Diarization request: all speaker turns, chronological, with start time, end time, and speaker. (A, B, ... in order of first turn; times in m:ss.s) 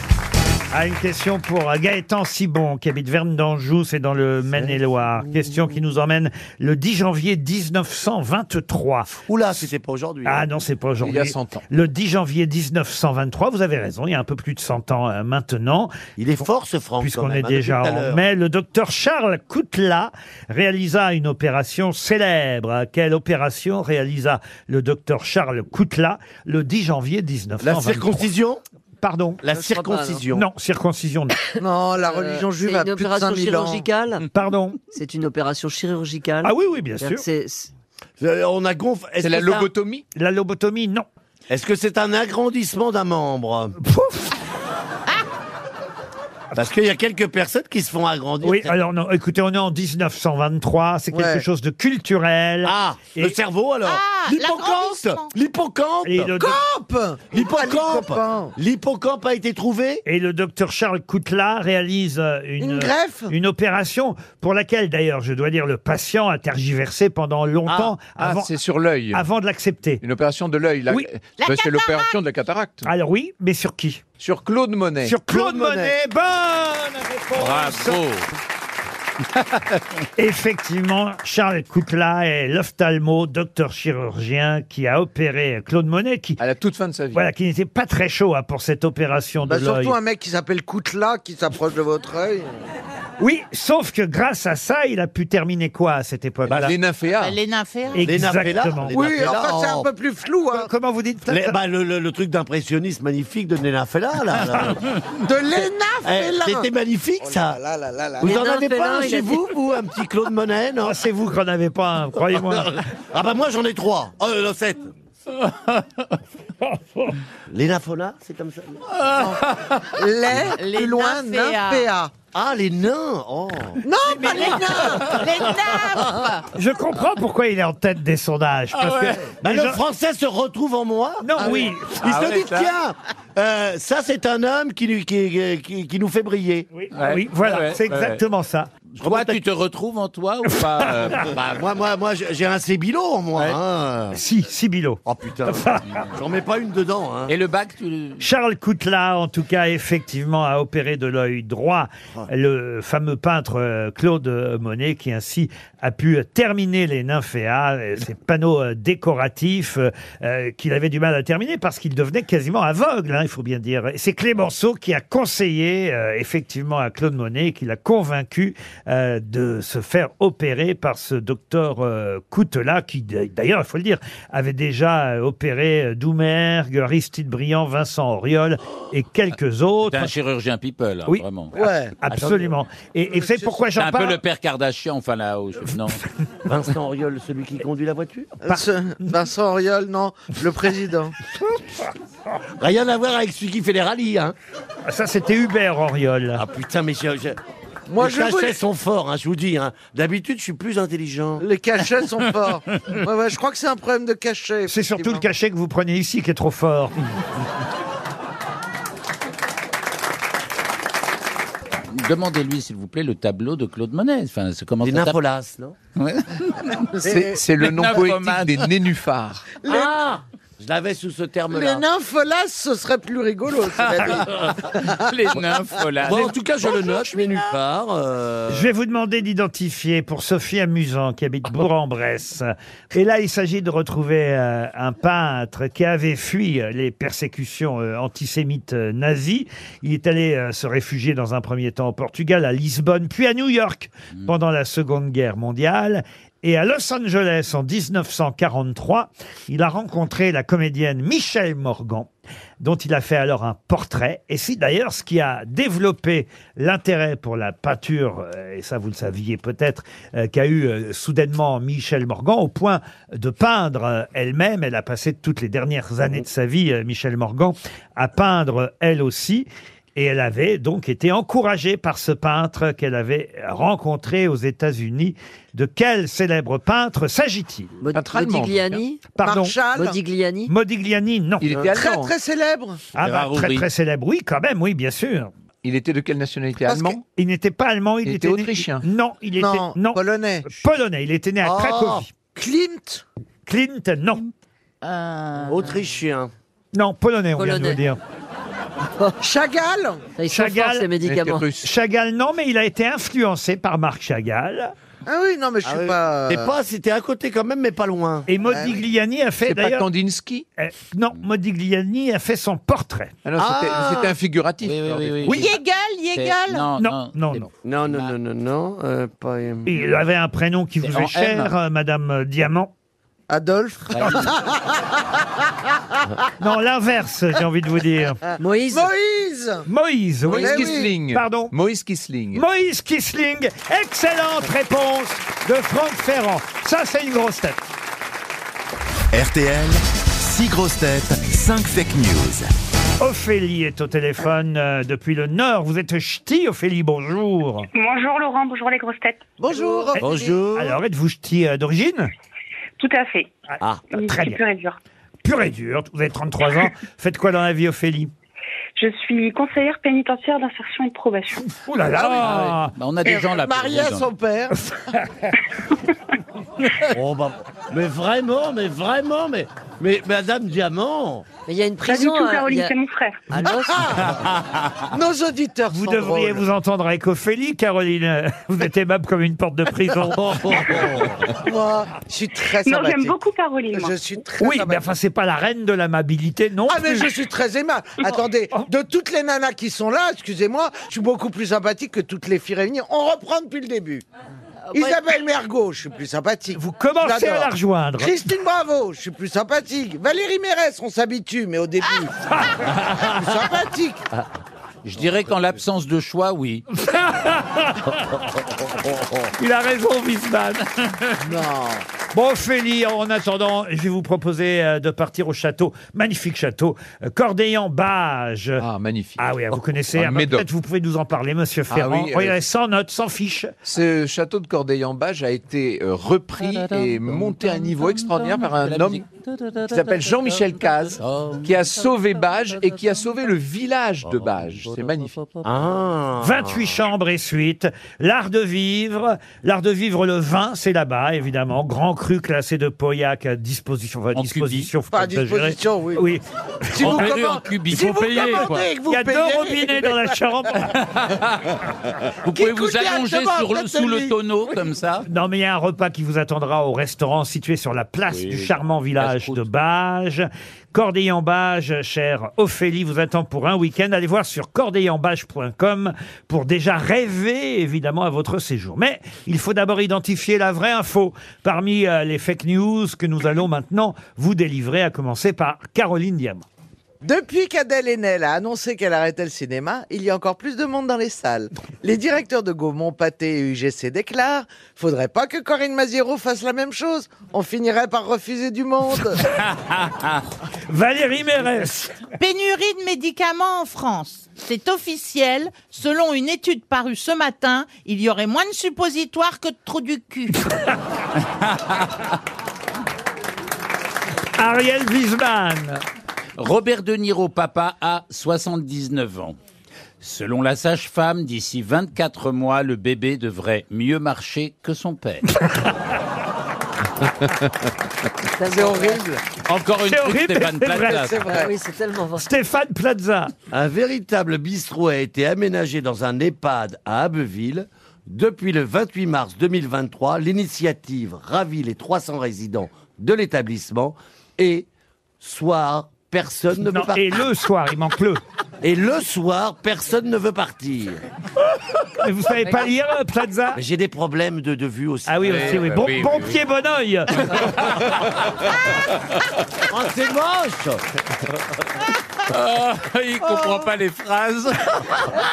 0:00.7-0:09.2 A
0:04.5-0:05.6 B
0:09.3-0:10.5 B
0:10.3-0:15.9 A
0:11.0-0:11.6 C
0:16.2-0:18.2 B
0:17.0-0:28.3 A
0:27.6-0:28.6 B
0:29.0-0:29.4 A
0:29.4-0:30.5 B
0:29.5-0:30.2 D
0:30.3-0:31.5 A
0:31.6-0:33.9 E
0:32.0-0:34.2 D
0:34.3-0:34.8 A
0:34.9-0:37.7 D
0:36.4-0:37.2 A
0:38.2-0:39.7 B
0:39.2-0:40.0 C
0:40.2-0:41.0 A
0:41.5-0:43.8 B
0:43.8-0:44.3 A
0:46.5-0:48.8 B
0:48.4-0:53.4 A
0:51.1-0:51.4 E
0:52.6-0:56.3 B
0:53.8-0:55.3 F
0:56.0-0:56.6 A
0:56.4-0:58.5 E
0:57.3-1:00.0 B
1:00.1-1:08.5 A
1:02.6-1:03.3 E
1:07.7-1:08.0 B
1:08.2-1:09.2 C
1:09.1-1:10.0 A
1:10.0-1:12.9 C
1:11.4-1:12.1 F
1:12.9-1:14.0 A
1:14.2-1:15.2 C
1:15.0-1:18.0 A
1:15.3-1:16.0 B
1:17.4-1:18.3 G
1:20.2-1:26.4 A
1:26.4-1:27.2 C
1:27.1-1:30.0 A
1:29.4-1:32.5 E
1:33.2-1:36.8 A
1:36.5-1:37.4 C
1:37.1-1:38.1 F
1:37.9-1:39.4 A
1:38.0-1:39.9 B
1:38.9-1:40.7 E
1:40.5-1:41.6 A
1:41.3-1:44.8 B
1:45.2-1:46.7 E
1:46.0-1:47.6 B
1:47.2-1:48.4 E
1:48.2-1:51.0 B
1:48.2-1:49.4 D
1:50.8-1:52.8 A
1:52.3-1:54.9 B
1:57.5-1:58.8 B
1:59.2-2:02.1 E
2:00.3-2:01.9 F
2:02.3-2:03.8 B
2:03.8-2:05.2 E
2:04.1-2:05.0 A
2:04.2-2:06.5 F
2:04.7-2:05.4 B
2:06.5-2:09.8 A
2:08.7-2:09.2 G
2:09.3-2:16.7 B
2:11.2-2:12.0 A
2:11.4-2:11.7 E
2:12.0-2:12.8 G
2:16.8-2:18.7 A
2:17.0-2:18.2 G
2:19.0-2:21.4 G
2:19.0-2:19.3 B
2:21.3-2:24.2 B
2:24.1-2:26.0 A
2:25.0-2:27.3 B
2:27.3-2:28.2 G
2:28.2-3:00.1 A
2:59.9-3:01.5 G
3:01.1-3:04.2 A
3:01.6-3:01.9 E
3:02.1-3:02.6 B
3:03.1-3:03.6 E
3:03.8-3:06.0 G
3:06.4-3:08.4 B
3:08.4-3:11.1 E
3:08.5-3:09.1 A
3:12.6-3:14.4 B
3:14.9-3:16.4 A
3:16.4-3:17.4 B
3:17.9-3:18.6 E
3:18.0-3:21.4 B
3:21.4-3:25.2 E
3:24.7-3:27.1 A
3:31.9-3:35.2 G
3:34.8-3:35.8 B
3:36.0-3:37.0 G
3:37.0-3:37.3 E
3:37.0-3:39.6 C
3:37.6-3:38.7 G
3:39.6-3:39.9 E
3:39.7-3:41.8 B
3:41.5-3:45.6 E
3:43.8-3:46.4 G
3:44.0-3:44.7 B
3:46.0-3:48.7 B
3:48.5-4:37.8 A
4:37.8-4:39.1 D
4:37.9-4:38.8 C
4:39.2-4:39.6 A
4:39.2-4:40.0 E
4:39.7-4:40.5 D
4:40.5-4:41.6 A
4:41.4-4:42.1 C
4:41.7-4:42.8 E
4:43.0-4:45.3 A
4:43.0-4:43.6 G
4:45.6-4:47.0 C
4:46.7-4:47.0 E
4:47.2-4:52.1 A
4:48.0-4:48.8 C
4:49.4-4:50.5 E
4:51.4-4:52.1 B
4:52.2-4:53.0 E
4:53.5-4:54.2 A
4:54.8-4:55.6 F
4:55.5-4:56.3 B
4:56.7-4:58.0 A
4:57.4-4:57.8 D
4:59.2-5:00.1 E
5:00.2-5:01.4 D
5:00.3-5:00.9 A
5:01.0-5:01.7 C
5:01.6-5:04.7 A
5:05.1-5:06.5 E
5:05.6-5:08.3 B
5:08.3-5:09.9 A
5:08.5-5:08.8 E
5:09.4-5:10.5 C
5:10.6-5:13.2 A
5:13.2-5:15.3 C
5:13.4-5:14.2 B
5:14.6-5:15.6 G
5:15.3-5:15.5 A
5:15.3-5:16.7 F
5:16.2-5:18.1 G
5:16.8-5:17.5 A
5:17.6-5:19.8 B
5:19.7-5:22.7 A
5:20.8-5:21.5 G
5:23.3-5:26.0 E
5:23.9-5:24.3 G
5:26.4-5:28.2 A
5:28.4-5:28.9 D
5:28.7-5:29.7 E
5:29.7-5:31.5 A
5:30.2-5:32.4 C
5:30.4-5:31.0 E
5:32.3-5:37.6 A
5:39.1-5:42.5 H
5:43.0-5:47.7 A
5:47.7-5:49.2 I
5:49.4-5:50.4 E
5:50.0-5:52.1 A
5:50.0-5:50.8 B
5:52.8-5:53.3 I
5:53.6-5:53.9 B
5:53.9-5:54.8 I
5:53.9-5:54.4 A
5:55.2-5:58.1 A
5:58.8-6:01.4 I
6:01.4-6:02.7 A
6:01.9-6:04.6 E
6:02.2-6:04.1 G
6:06.9-6:11.2 B
6:11.5-6:12.8 D
6:11.8-6:13.2 I
6:13.3-6:13.9 D
6:13.7-6:14.1 E
6:14.1-6:14.4 G
6:14.9-6:16.5 E
6:15.7-6:20.8 A
6:20.1-6:21.2 B
6:21.4-6:23.2 E
6:22.6-6:24.0 I
6:23.7-6:24.9 E
6:24.4-6:27.1 A
6:26.7-6:34.0 E
6:28.1-6:28.7 A
6:34.7-6:42.1 E
6:34.7-6:35.0 F
6:36.6-6:38.2 A
6:42.3-6:42.6 A
6:42.7-6:43.3 B
6:43.0-6:44.0 E
6:44.8-6:46.6 G
6:46.8-6:48.1 A
6:48.8-6:49.2 B
6:49.4-6:50.7 A
6:51.2-6:51.8 E
6:52.1-6:58.6 A
6:58.6-6:59.2 C
6:59.2-7:03.6 A
6:59.9-7:00.5 C
7:01.7-7:02.4 C
7:03.6-7:09.0 C
7:06.7-7:11.5 G
7:09.7-7:15.1 C
7:15.4-7:16.8 B
7:16.2-7:27.2 A
7:24.2-7:24.7 G
7:24.9-7:26.0 E
7:26.7-7:30.2 E
7:26.8-7:28.7 G
7:27.7-7:30.8 A
7:30.7-7:31.5 G
7:32.2-7:35.1 G
7:32.3-7:34.1 E
7:35.1-7:56.4 A
7:38.1-7:39.4 G
7:57.0-8:09.2 E
8:09.7-8:10.2 G
8:10.7-8:12.0 A
8:12.2-8:20.4 F
8:24.4-8:25.8 A
8:26.4-8:29.4 G
8:30.0-8:35.3 G
8:38.4-8:39.0 D
8:38.5-8:39.2 E
8:39.4-8:41.3 G
8:39.8-8:41.3 A
8:41.2-8:42.2 D
8:42.2-8:43.3 A
8:43.5-8:54.7 B
8:55.2-8:57.2 B
8:56.7-8:58.2 A
8:58.6-9:01.0 B
9:02.0-9:03.6 A
9:03.6-9:05.7 B
9:05.1-9:07.7 A
9:05.2-9:06.4 G
9:07.3-9:08.0 G
9:09.7-9:10.8 B
9:12.3-9:14.8 G